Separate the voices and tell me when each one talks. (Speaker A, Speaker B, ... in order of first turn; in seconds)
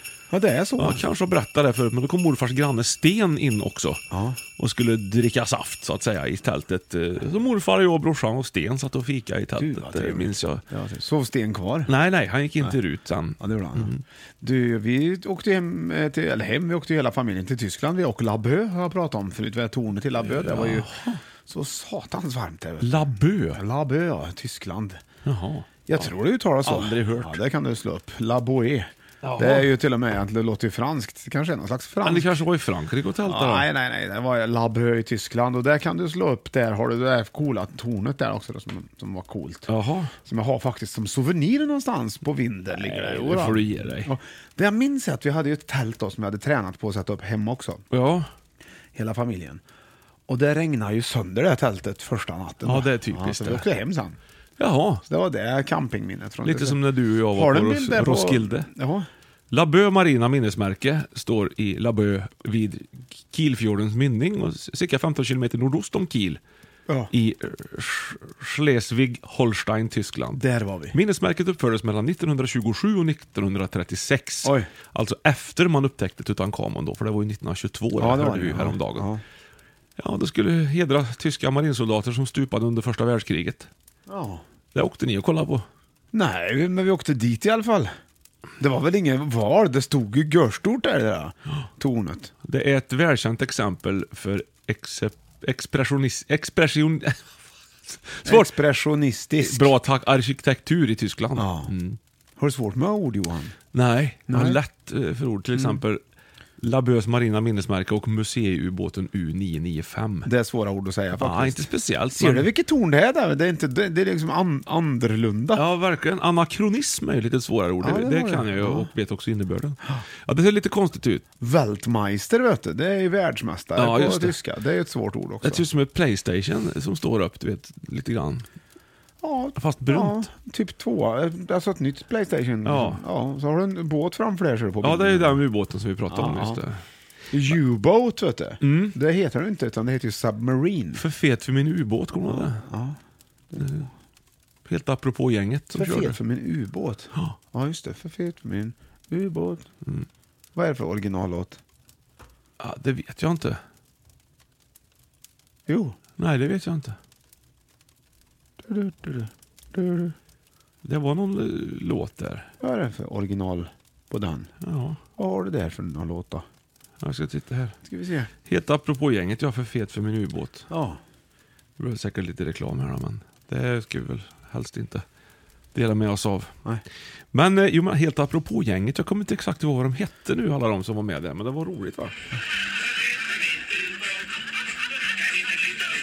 Speaker A: 0.3-1.0, 4.1-4.4, 9.6-11.9, 13.4-20.9, 21.5-25.0, 25.9-32.4, 33.2-39.7, 40.2-47.8, 49.0-49.6, 50.3-54.2, 55.1-56.8, 57.3-59.1, 66.9-67.1, 70.4-71.0, 78.0-79.2, 84.1-84.4, 86.1-87.9, 88.6-92.3, 98.2-99.7, 101.4-101.7, 102.4-103.5, 104.3-104.6, 110.2-115.6, 117.8-118.9, 121.4-125.6, 129.2-135.4, 136.1-136.6, 137.3-141.0, 142.3-143.0, 143.5-143.8, 145.7-149.7, 150.6-151.6, 155.7-156.0, 158.6-160.1, 162.6-164.5, 165.2-166.4, 167.9-168.3, 170.7-171.0
Speaker B: 0.8-10.6, 11.9-14.0, 20.2-21.2, 22.8-23.6, 25.2-27.4, 29.2-29.7, 32.0-33.7, 39.7-40.1, 42.8-44.1, 47.9-48.3, 52.6-53.7, 54.6-55.0, 56.4-58.7, 59.5-66.4, 67.1-70.4, 70.9-79.1, 80.0-83.7, 84.7-85.7, 92.4-97.2, 97.9-98.5, 99.4-102.0, 103.7-106.0, 106.6-110.3, 111.2-112.5, 115.5-121.2, 123.8-124.4, 125.4-128.4, 129.6-130.3, 132.6-133.0, 134.8-136.8, 138.6-138.9, 140.9-142.6, 143.6-143.9, 144.7-146.2, 152.6-153.6, 156.2-157.0, 160.8-162.5, 164.6-165.0, 167.0-167.8, 168.5-170.7, 171.8-175.1, 175.7-176.6, 177.3-182.2